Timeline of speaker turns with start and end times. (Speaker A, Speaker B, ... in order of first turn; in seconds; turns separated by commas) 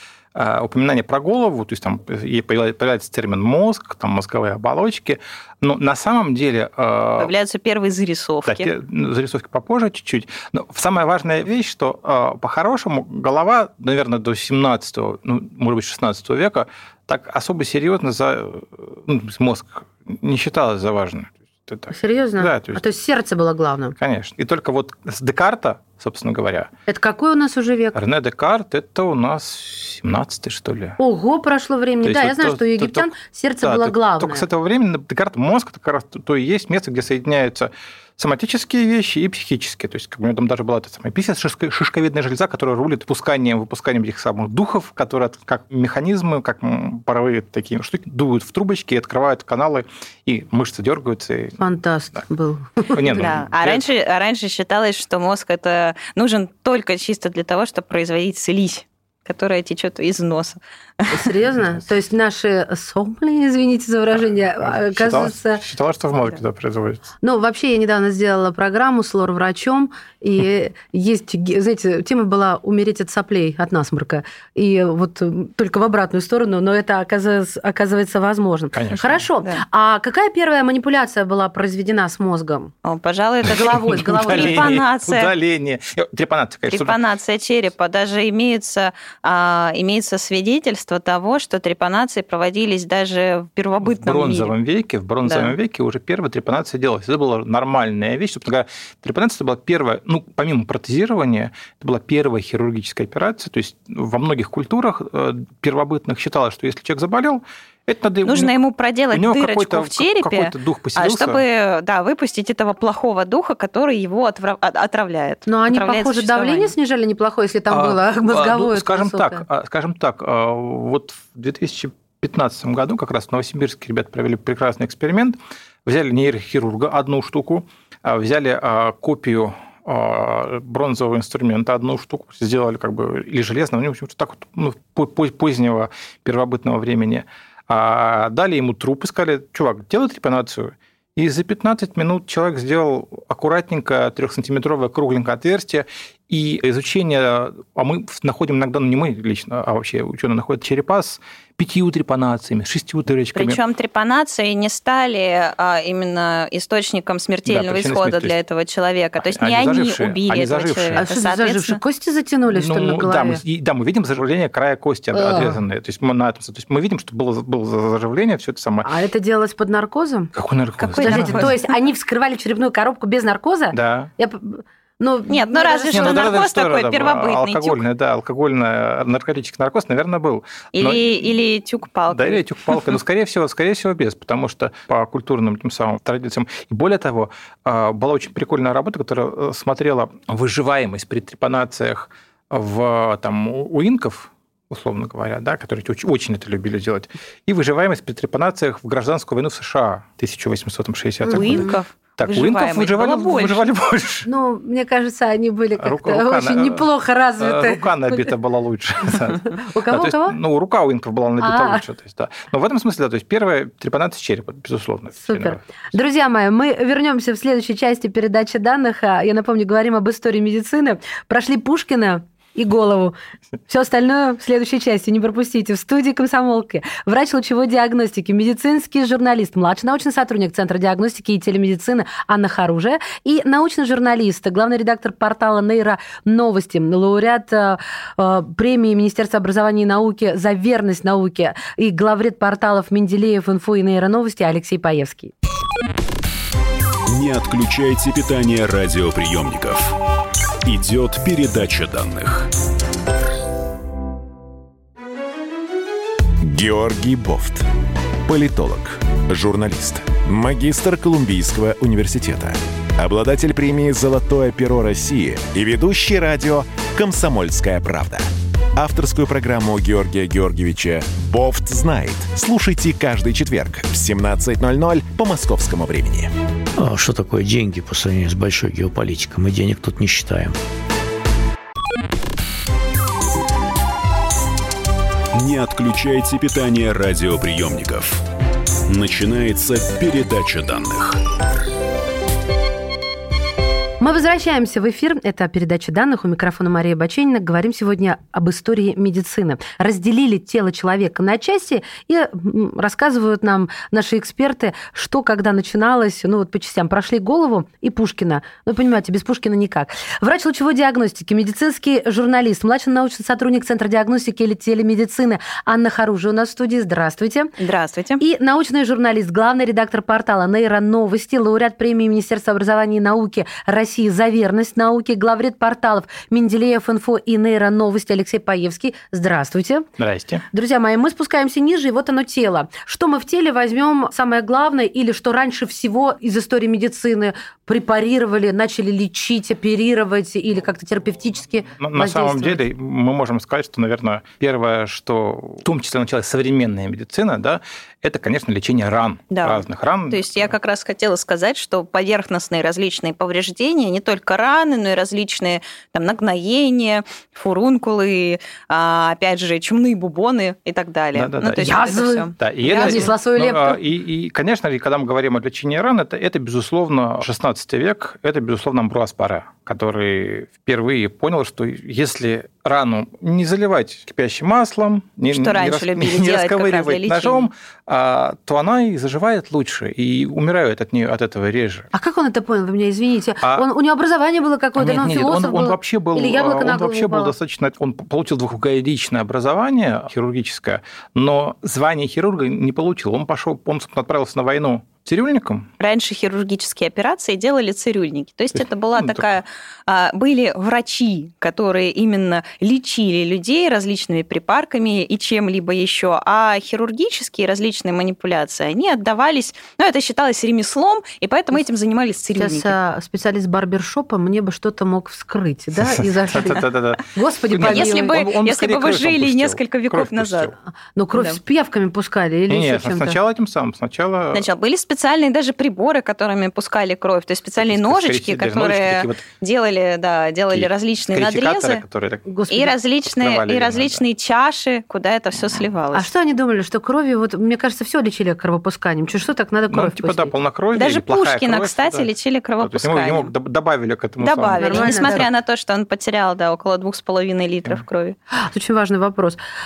Speaker A: 0.3-7.3, Speaker B: 7.2-8.7, Speaker A: 8.5-22.8, Speaker C: 21.9-23.9, Speaker A: 24.0-26.7, Speaker C: 26.9-28.0, Speaker A: 27.9-31.0, Speaker C: 31.0-34.5, Speaker A: 32.0-51.6, Speaker C: 51.6-53.0, Speaker A: 52.9-53.9, Speaker B: 53.1-61.3, Speaker C: 61.1-65.6, Speaker A: 64.2-67.0, Speaker C: 67.2-82.7, Speaker A: 78.7-79.3, Speaker B: 82.8-85.3, Speaker C: 83.5-84.7, Speaker A: 83.5-87.0, Speaker B: 86.7-94.5, Speaker A: 93.8-108.5, Speaker B: 95.2-95.5, Speaker B: 108.2-116.7, Speaker A: 109.1-111.4, Speaker C: 115.5-119.4, Speaker A: 117.7-153.6, Speaker B: 153.3-161.8, Speaker A: 157.5-158.4, Speaker A: 159.2-161.1, Speaker C: 161.0-163.4, Speaker A: 162.5-168.9, Speaker C: 165.1-165.6, Speaker C: 168.8-170.3, Speaker A: 170.3-171.6, Speaker B: 170.8-171.6, Speaker C: 171.0-176.4, Speaker A: 173.7-174.1, Speaker B: 175.3-177.8, Speaker A: 175.9-181.3, Speaker B: 180.8-182.5, Speaker A: 182.1-204.3, Speaker C: 201.2-201.8, Speaker B: 201.3-203.6, Speaker C: 204.3-208.3, Speaker A: 205.8-206.9, Speaker A: 207.4-215.9, Speaker C: 209.3-210.4, Speaker C: 211.4-211.8, Speaker C: 215.2-223.2, Speaker C: 223.7-245.3, Speaker D: 247.1-249.9, Speaker D: 250.7-252.5, Speaker E: 256.4-257.6, Speaker E: 258.3-276.3, Speaker F: 276.8-280.6, Speaker D: 285.3-288.2, Speaker D: 288.9-291.2, Speaker C: 294.0-317.5, Speaker B: 317.6-318.2, Speaker C: 318.2-329.9, Speaker A: 330.0-330.4, Speaker C: 330.5-342.6, Speaker A: 341.8-350.6, Speaker B: 349.3-363.1, Speaker A: 361.1-361.7, Speaker C: 361.5-363.8, Speaker A: 362.4-381.9, Speaker B: 375.3-377.5, Speaker C: 381.9-387.3, Speaker A: 383.4-383.7, Speaker A: 384.8-395.7, Speaker B: 395.8-412.7, Speaker A: 398.5-399.3, Speaker C: 412.4-418.1, Speaker A: 415.8-420.6, Speaker B: 417.6-420.5, Speaker C: 421.0-423.2, Speaker A: 422.5-424.5, Speaker B: 424.3-431.8, Speaker A: 427.6-429.2, Speaker A: 430.5-432.3, Speaker C: 432.3-432.7, Speaker B: 432.5-436.1, Speaker A: 433.1-434.1, Speaker C: 435.9-440.3, Speaker A: 439.7-445.3, Speaker B: 440.8-443.3, Speaker B: 444.2-448.2, Speaker C: 444.6-445.3, Speaker C: 448.4-449.4